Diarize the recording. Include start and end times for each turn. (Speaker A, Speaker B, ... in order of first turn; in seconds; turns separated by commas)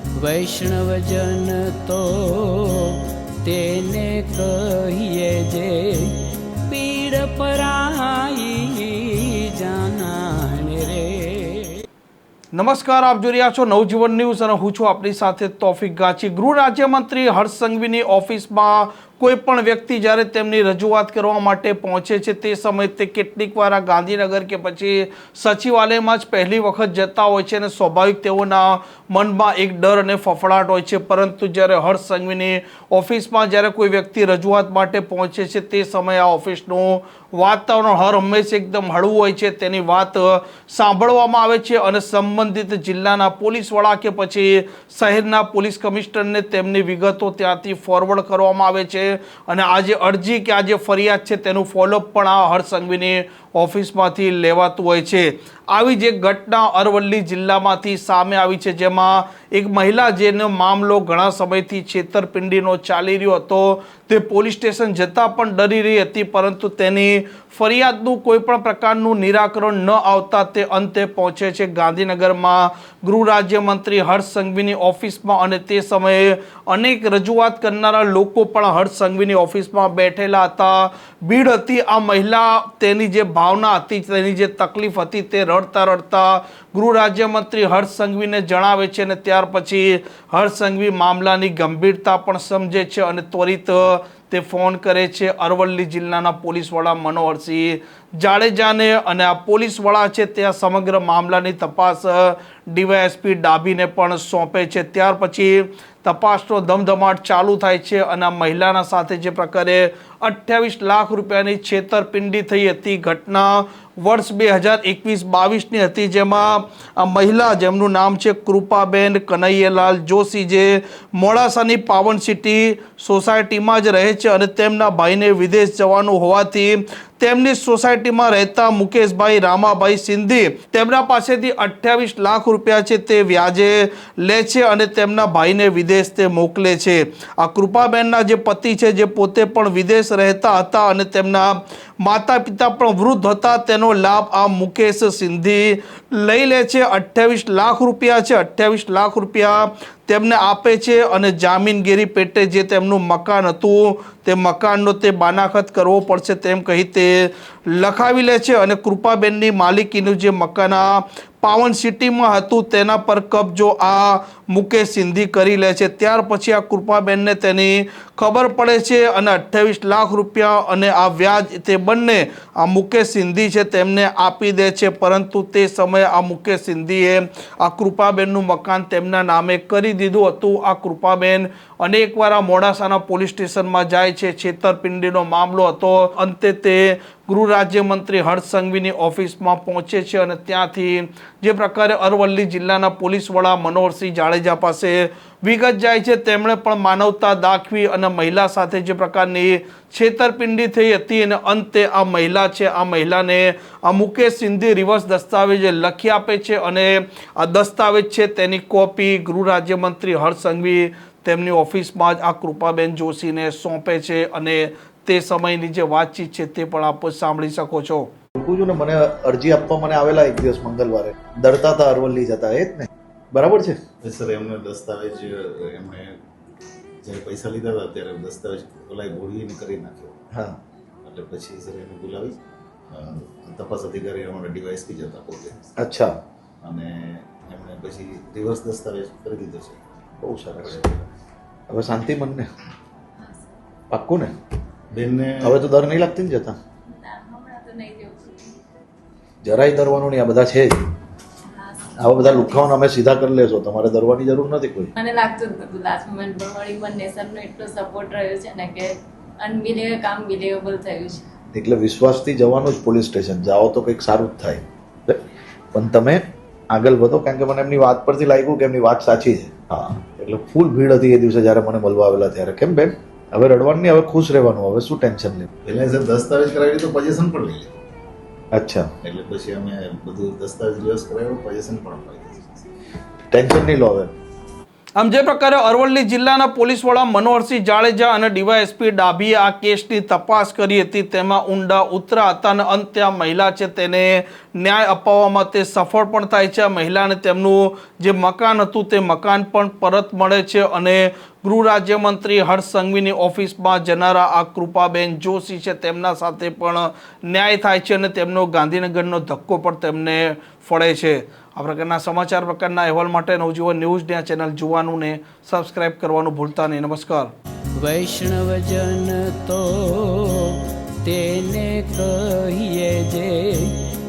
Speaker A: 0.2-6.1, Speaker A: 6.7-11.8, Speaker B: 12.5-218.1, Speaker C: 218.4-223.8, Speaker D: 224.0-226.2, Speaker D: 227.0-230.2, Speaker C: 230.3-230.6, Speaker D: 231.0-235.7, Speaker C: 235.8-236.1, Speaker D: 236.6-239.8, Speaker C: 240.2-240.8, Speaker D: 240.6-241.0, Speaker C: 241.7-242.5, Speaker E: 243.2-243.6, Speaker C: 243.9-244.3, Speaker D: 244.9-245.6, Speaker C: 245.4-246.6, Speaker E: 246.8-248.6, Speaker C: 249.4-250.8, Speaker E: 251.5-252.7, Speaker C: 252.0-254.9, Speaker E: 254.9-261.3, Speaker C: 261.5-265.2, Speaker C: 265.7-275.5, Speaker D: 275.6-277.7, Speaker C: 278.5-278.9, Speaker D: 279.0-282.7, Speaker C: 283.3-284.1, Speaker B: 285.0-317.3, Speaker A: 317.8-323.7